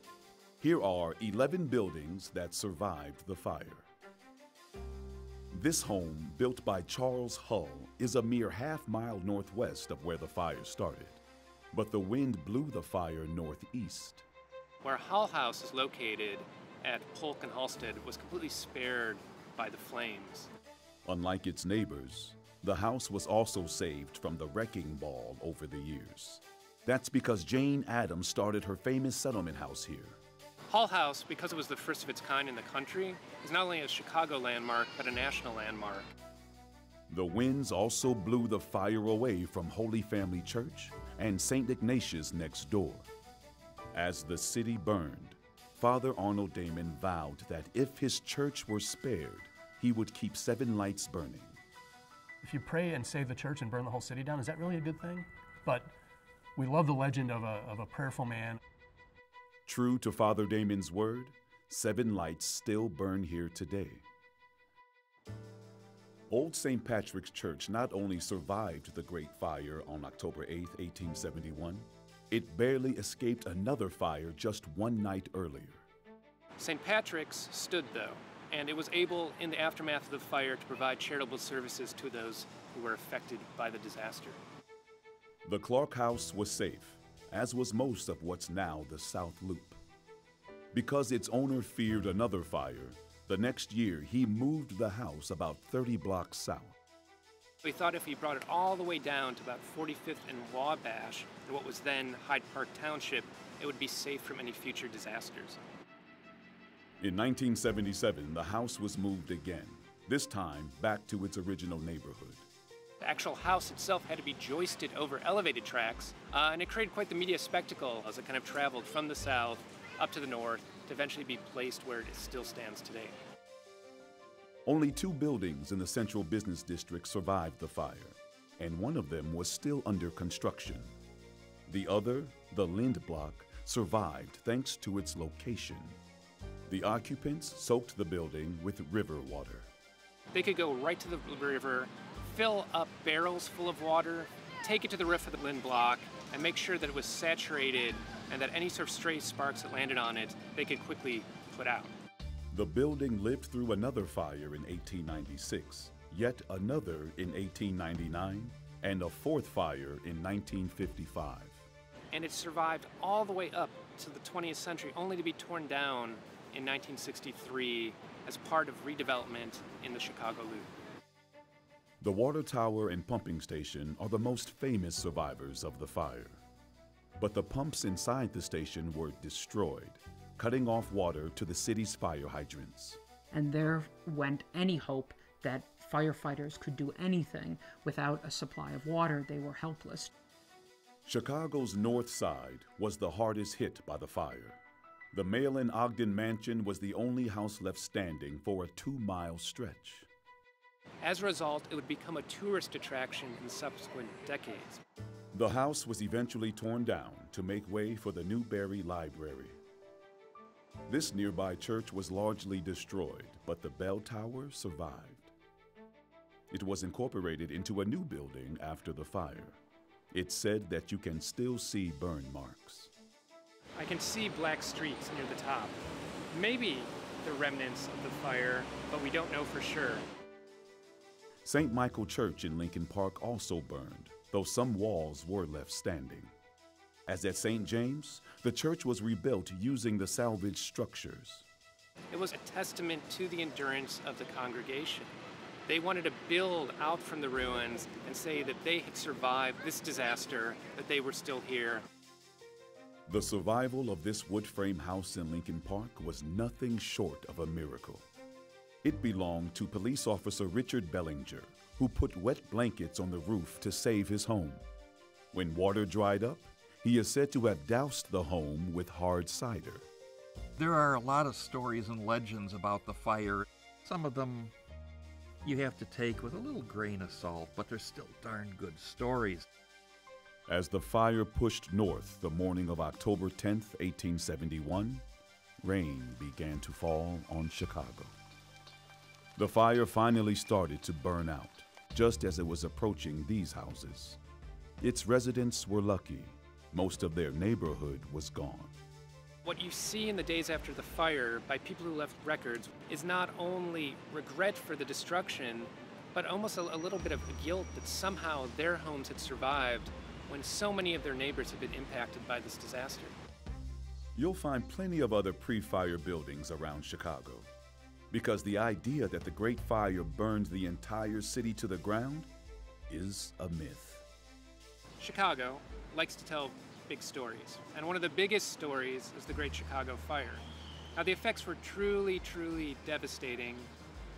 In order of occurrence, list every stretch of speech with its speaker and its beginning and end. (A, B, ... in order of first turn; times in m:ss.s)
0:00.6-0:03.9 A
0:05.5-0:14.2 A
0:14.8-0:20.5 B
0:21.0-0:30.2 A
0:30.7-0:36.1 B
0:37.1-0:43.1 A
0:43.9-0:51.6 A
0:52.4-0:55.9 C
0:56.6-0:58.6 C
0:59.6-1:04.0 A
1:06.3-1:15.8 A
1:16.6-1:24.4 B
1:25.4-1:29.8 A
1:30.7-1:36.7 A
1:37.6-1:45.6 B
1:47.0-1:52.5 A
1:53.0-2:03.2 B
2:04.6-2:10.9 A
2:11.7-2:16.0 A
2:16.7-2:19.7 A
2:20.3-2:31.9 B
2:32.5-2:41.7 A
2:42.1-2:50.7 B
2:52.0-2:56.4 A
2:57.2-3:03.0 A
3:03.3-3:10.1 D
3:11.0-3:14.6 A
3:15.1-3:20.1 A
3:21.0-3:24.8 B
3:25.3-3:29.6 A
3:30.9-3:35.3 A
3:36.5-3:39.6 A
3:40.1-3:42.9 A
3:43.8-3:45.8 B
3:46.3-3:50.0 B
3:51.4-3:56.3 A
3:57.1-4:01.4 A
4:02.1-4:05.1 B
4:05.7-4:11.8 B
4:13.1-4:18.0 A
4:18.8-4:24.6 A
4:25.3-4:29.9 A
4:30.6-4:34.5 E
4:35.4-4:39.5 E
4:40.5-4:45.0 A
4:45.6-4:48.1 A
4:49.4-4:54.2 A
4:54.8-4:58.7 A
4:59.4-5:13.2 B
5:14.2-5:17.5 A
5:18.1-5:22.3 A
5:22.9-5:24.0 A
5:25.0-5:30.4 B
5:30.9-5:33.7 B